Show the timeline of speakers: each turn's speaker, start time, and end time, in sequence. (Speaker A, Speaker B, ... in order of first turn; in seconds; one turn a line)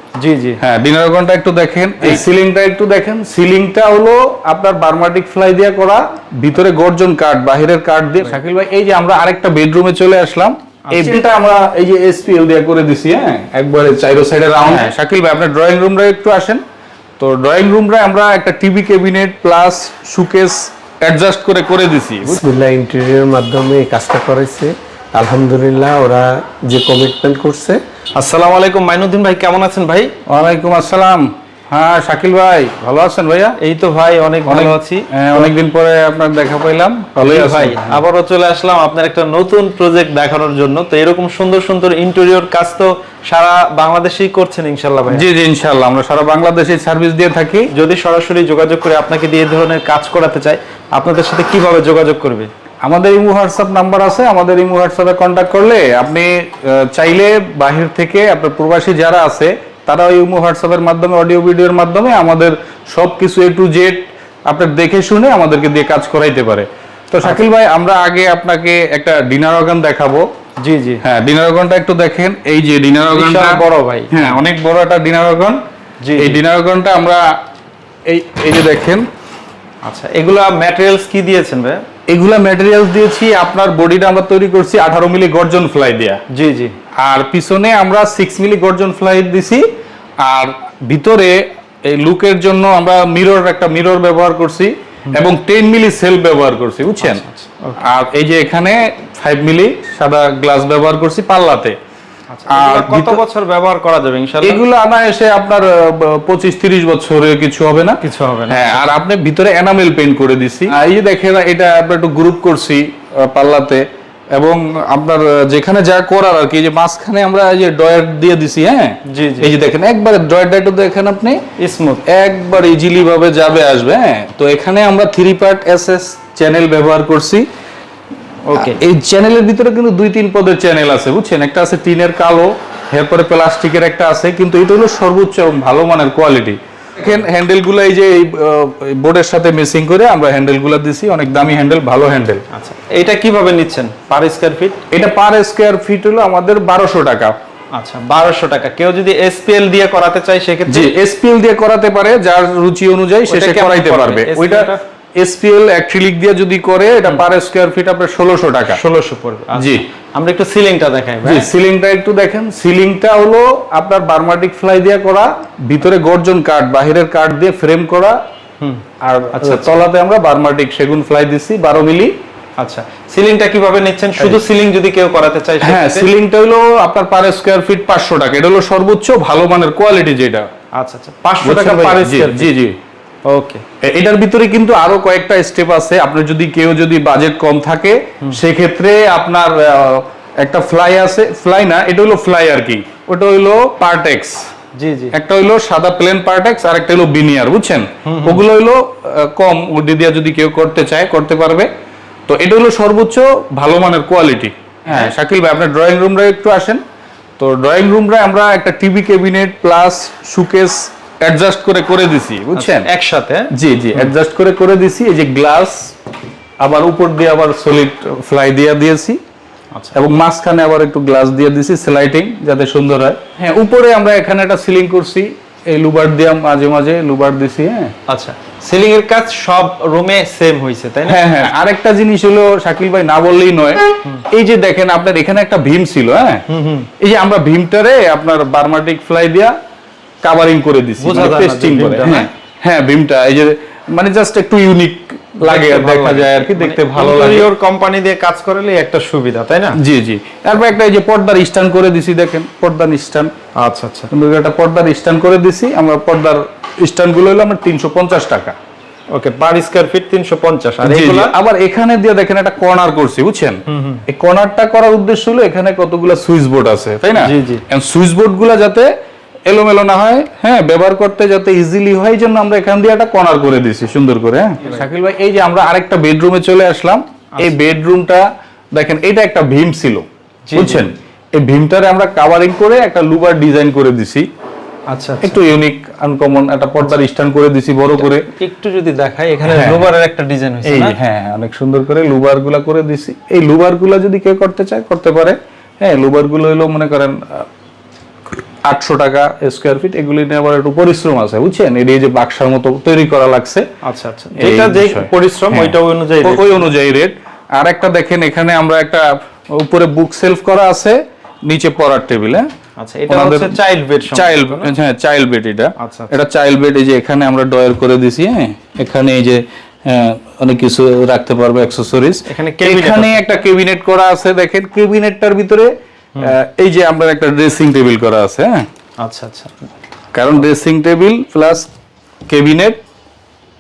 Speaker A: 0.2-0.6
Speaker B: 0.6-16.6
Speaker A: 10.9-11.2
Speaker B: 17.2-22.4
Speaker C: 22.2-27.8
Speaker A: 28.2-30.1
Speaker B: 30.3-33.6
Speaker A: 33.6-35.5
Speaker B: 34.5-38.0
Speaker A: 37.2-45.3
Speaker B: 45.1-47.7
Speaker A: 47.7-52.5
Speaker B: 52.8-70.3
Speaker A: 70.6-71.0
Speaker B: 71.0-75.6
Speaker A: 73.1-74.4
Speaker A: 76.0-76.4
Speaker B: 76.2-77.2
Speaker B: 78.1-79.0
Speaker A: 79.8-81.8
Speaker B: 82.1-86.2
Speaker A: 86.3-86.8
Speaker B: 87.0-89.7
Speaker B: 90.2-97.2
Speaker A: 97.0-97.8
Speaker B: 97.8-101.8
Speaker A: 102.3-104.6
Speaker B: 102.5-103.2
Speaker B: 104.4-121.4
Speaker A: 108.0-108.9
Speaker A: 119.1-119.5
Speaker A: 121.6-122.0
Speaker B: 122.1-127.5
Speaker A: 128.5-128.8
Speaker B: 128.6-142.4
Speaker A: 142.5-144.8
Speaker B: 144.9-147.3
Speaker A: 147.8-150.9
Speaker B: 150.7-158.8
Speaker A: 153.3-154.8
Speaker A: 158.7-161.5
Speaker B: 159.6-159.8
Speaker B: 161.2-168.2
Speaker B: 169.0-172.1
Speaker A: 169.4-169.7
Speaker A: 172.6-176.1
Speaker B: 175.6-180.5
Speaker A: 180.8-182.5
Speaker B: 181.4-182.8
Speaker A: 183.3-183.6
Speaker B: 183.8-194.4
Speaker A: 194.8-195.2
Speaker B: 195.1-201.7
Speaker A: 198.1-198.4
Speaker B: 202.3-206.8
Speaker A: 204.9-205.1
Speaker B: 207.4-212.9
Speaker A: 212.6-214.1
Speaker B: 213.5-215.9
Speaker B: 216.6-219.2
Speaker B: 219.9-227.9
Speaker A: 228.1-231.5
Speaker B: 231.1-236.4
Speaker A: 236.5-236.9
Speaker B: 237.0-239.5
Speaker B: 240.2-247.5
Speaker A: 241.0-242.3
Speaker A: 245.4-249.8
Speaker B: 249.8-253.3
Speaker A: 253.6-254.1
Speaker B: 254.1-258.6
Speaker A: 259.1-261.3
Speaker B: 260.8-268.9
Speaker A: 263.7-264.0
Speaker A: 267.2-267.6
Speaker B: 269.5-284.2
Speaker A: 280.5-280.9
Speaker A: 284.9-285.5
Speaker B: 285.2-288.3
Speaker A: 288.0-290.9
Speaker B: 289.5-289.9
Speaker B: 290.6-297.5
Speaker B: 298.7-303.6
Speaker A: 303.8-306.7
Speaker B: 304.4-312.5
Speaker A: 312.8-314.7
Speaker B: 313.1-313.6
Speaker B: 314.1-328.7
Speaker A: 315.8-316.1
Speaker A: 322.3-323.4
Speaker A: 329.0-329.6
Speaker B: 330.1-331.7
Speaker B: 332.3-332.8